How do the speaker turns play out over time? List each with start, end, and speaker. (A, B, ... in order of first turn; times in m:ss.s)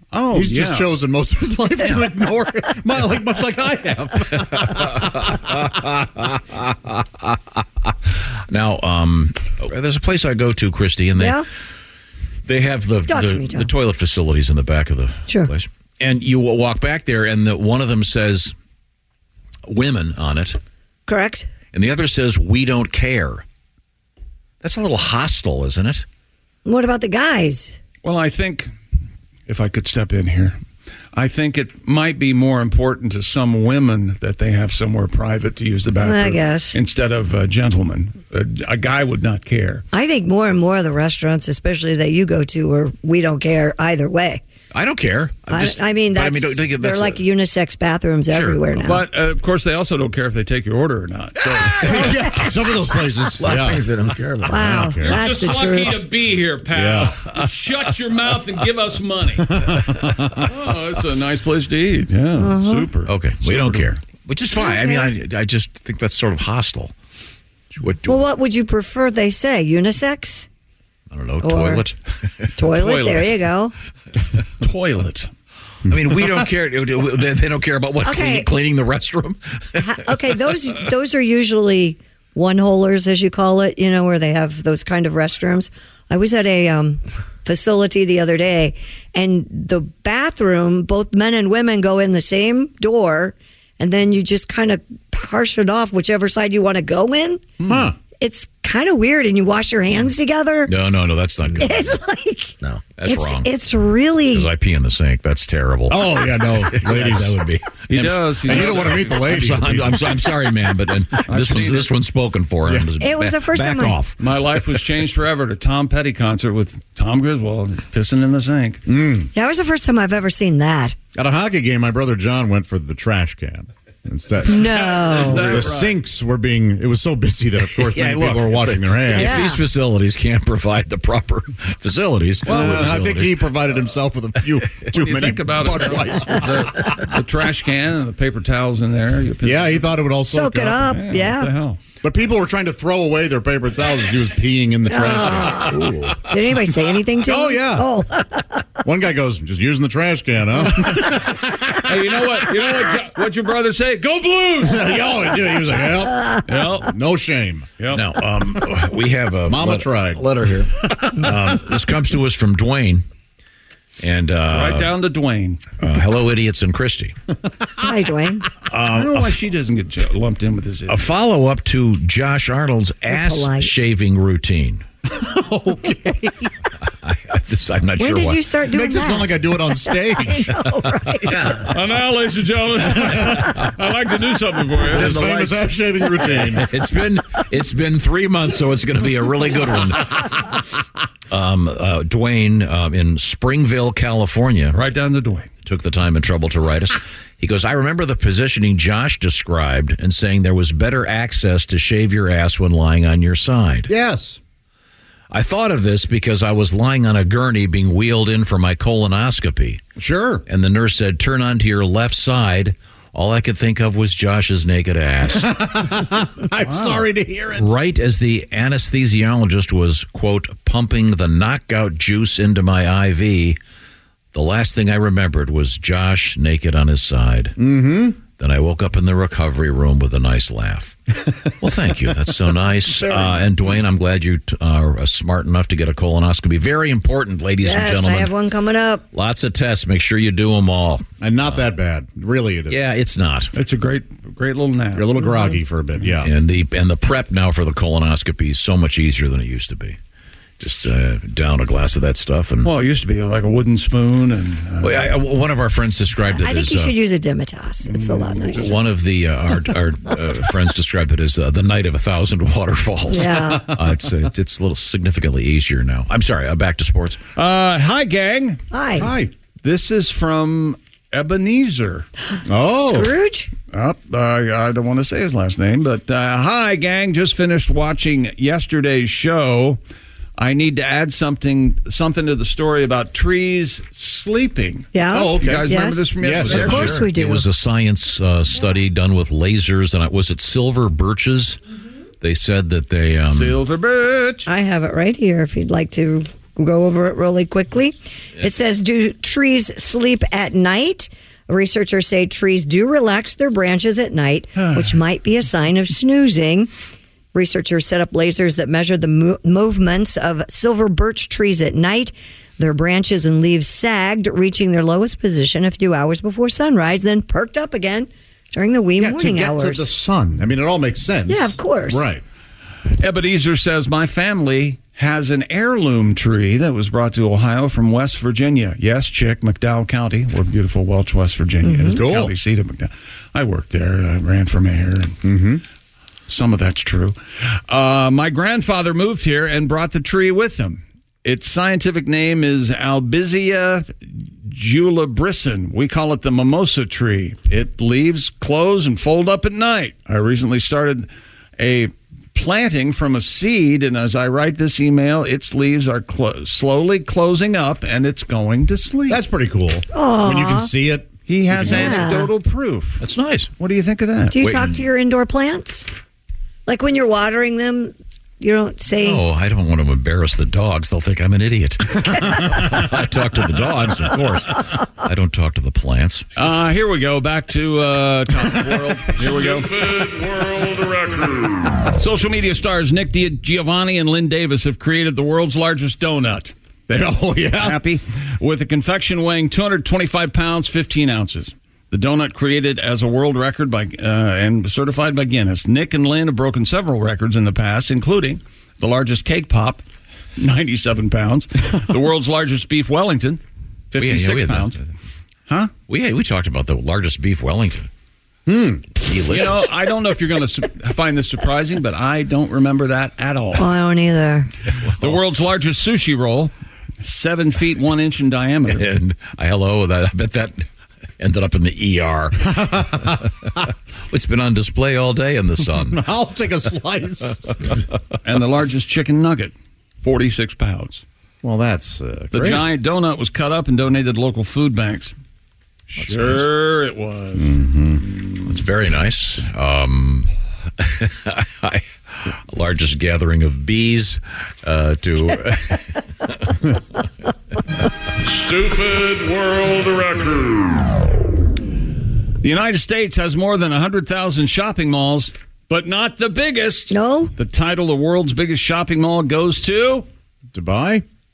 0:00.1-0:01.0 A
0:00.3-0:05.2 B
0:05.3-0:07.4 C
0:07.9-0:11.4 C
0:11.2-0:11.5 D
0:12.5-0:18.6 C
0:13.1-0:13.7 D
0:19.7-0:20.6 C
0:21.1-0:21.5 D
0:21.7-0:23.4 C
0:24.6-0:26.1 C
0:26.6-0:27.8 D
0:28.0-0:28.7 A
0:29.5-0:30.6 A
0:31.1-0:39.8 A
0:36.0-0:36.8 D
0:39.9-0:44.4 D
0:44.7-0:47.2 C
0:45.5-0:49.1 D
0:48.3-0:48.7 C
0:48.8-0:52.2 A
0:51.7-0:53.9 B
0:52.0-0:52.4 D
0:53.4-0:54.6 E
0:54.4-0:55.3 B
0:54.5-0:56.0 D
0:55.0-0:59.6 A
0:56.7-0:57.2 B
0:59.6-1:00.2 B
1:00.4-1:04.0 A
1:02.4-1:02.9 D
1:03.1-1:06.9 C
1:04.6-1:05.1 D
1:07.7-1:08.3 C
1:08.1-1:10.5 D
1:11.1-1:12.5 C
1:11.4-1:11.9 D
1:12.6-1:13.8 D
1:12.7-1:13.4 A
1:14.6-1:15.3 A
1:15.9-1:19.8 C
1:18.0-1:18.5 D
1:19.8-1:37.4 D
1:37.6-1:37.9 A
1:37.7-1:38.0 B
1:38.2-1:40.8 D
1:40.7-1:41.7 C
1:41.4-1:42.0 E
1:41.6-1:44.5 D
1:43.0-1:43.5 C
1:44.3-1:46.0 C
1:45.9-1:47.4 B
1:46.6-1:54.2 C
1:47.9-1:49.3 A
1:48.4-1:50.2 B
1:51.2-1:52.0 A
1:52.6-1:52.9 B
1:53.0-1:54.0 D
1:54.2-1:58.8 A
1:58.9-1:59.3 B
1:59.3-2:01.0 D
2:01.2-2:09.4 B
2:04.4-2:05.7 D
2:04.6-2:06.0 A
2:07.7-2:13.4 C
2:09.1-2:09.6 D
2:12.5-2:13.0 A
2:12.5-2:16.9 B
2:15.0-2:20.0 A
2:19.4-2:20.8 B
2:20.3-2:21.5 D
2:20.8-2:21.8 A
2:22.0-2:25.7 B
2:24.9-2:28.6 D
2:27.3-2:28.0 B
2:28.8-2:31.7 B
2:31.8-2:35.1 A
2:34.6-2:37.7 B
2:36.5-2:36.9 A
2:37.8-2:38.1 A
2:37.9-2:43.0 C
2:39.5-2:40.2 B
2:44.0-2:44.9 C
2:44.5-2:45.7 A
2:45.8-2:47.1 C
2:47.8-2:48.5 D
2:48.7-2:49.3 C
2:48.8-2:51.0 A
2:50.9-2:54.8 C
2:53.1-2:53.7 D
2:55.1-2:56.5 B
2:57.0-2:58.4 C
2:58.0-3:01.6 D
2:58.7-3:00.6 B
3:01.7-3:05.2 A
3:04.9-3:06.6 B
3:05.0-3:06.2 E
3:06.4-3:10.5 C
3:11.3-3:14.8 C
3:14.7-3:15.5 A
3:15.6-3:23.9 C
3:23.9-3:24.4 B
3:25.3-3:29.8 C
3:30.0-3:30.4 B
3:30.5-3:35.5 C
3:35.4-3:37.7 B
3:36.7-3:37.0 A
3:37.6-3:43.6 C
3:44.3-3:47.6 C
3:47.6-3:48.2 B
3:48.3-3:51.0 C
3:51.6-3:58.3 C
3:57.6-3:59.1 D
3:59.1-4:01.0 C
4:01.2-4:02.8 B
4:02.7-4:03.5 C
4:03.6-4:05.2 A
4:05.0-4:06.3 B
4:06.2-4:10.0 C
4:10.6-4:12.7 C
4:12.6-4:15.1 A
4:14.8-4:16.9 C
4:16.3-4:18.8 D
4:17.9-4:18.6 A
4:18.5-4:27.2 C
4:23.1-4:23.8 D
4:27.4-4:28.6 A
4:28.7-4:29.1 D
4:29.0-4:29.3 B
4:29.6-4:32.1 A
4:32.5-4:33.1 B
4:32.8-4:33.5 D
4:33.7-4:39.8 A
4:40.4-4:47.1 A
4:44.9-4:47.5 D
4:45.1-4:47.0 B
4:46.6-4:51.6 C
4:52.2-4:53.6 C
4:53.3-4:54.5 A
4:54.5-5:06.7 D
5:04.6-5:05.0 A
5:07.3-5:20.0 D
5:19.0-5:22.2 B
5:21.3-5:22.1 D
5:23.0-5:35.2 A
5:31.6-5:32.0 D
5:31.9-5:32.4 B
5:35.2-5:35.6 B
5:36.3-5:59.2 A
5:59.1-6:02.0 B
5:59.9-6:00.7 D
6:01.3-6:03.0 A
6:01.6-6:02.3 D
6:03.0-6:03.5 C
6:03.6-6:04.4 A
6:04.3-6:05.9 D
6:04.4-6:04.8 C
6:06.7-6:09.2 D
6:09.0-6:16.3 C
6:16.4-6:26.5 A
6:26.9-6:27.8 B
6:27.5-6:39.8 A
6:40.4-6:43.4 A
6:43.9-6:44.8 A
6:44.0-6:44.8 C
6:45.9-6:47.9 C
6:48.5-6:48.9 B
6:49.0-6:49.6 C
6:49.3-6:53.7 A
6:53.6-6:54.5 D
6:55.0-6:58.9 A
6:58.7-7:00.6 C
7:01.2-7:03.5 C
7:02.6-7:02.9 B
7:04.1-7:06.0 C
7:05.9-7:07.8 B
7:08.2-7:11.0 A
7:11.4-7:12.7 B
7:12.3-7:15.2 A
7:15.9-7:17.6 A
7:16.0-7:16.5 C
7:17.4-7:18.0 B
7:18.4-7:26.6 C
7:28.2-7:30.8 A
7:32.4-7:40.1 A
7:36.9-7:37.3 D
7:40.5-7:41.0 B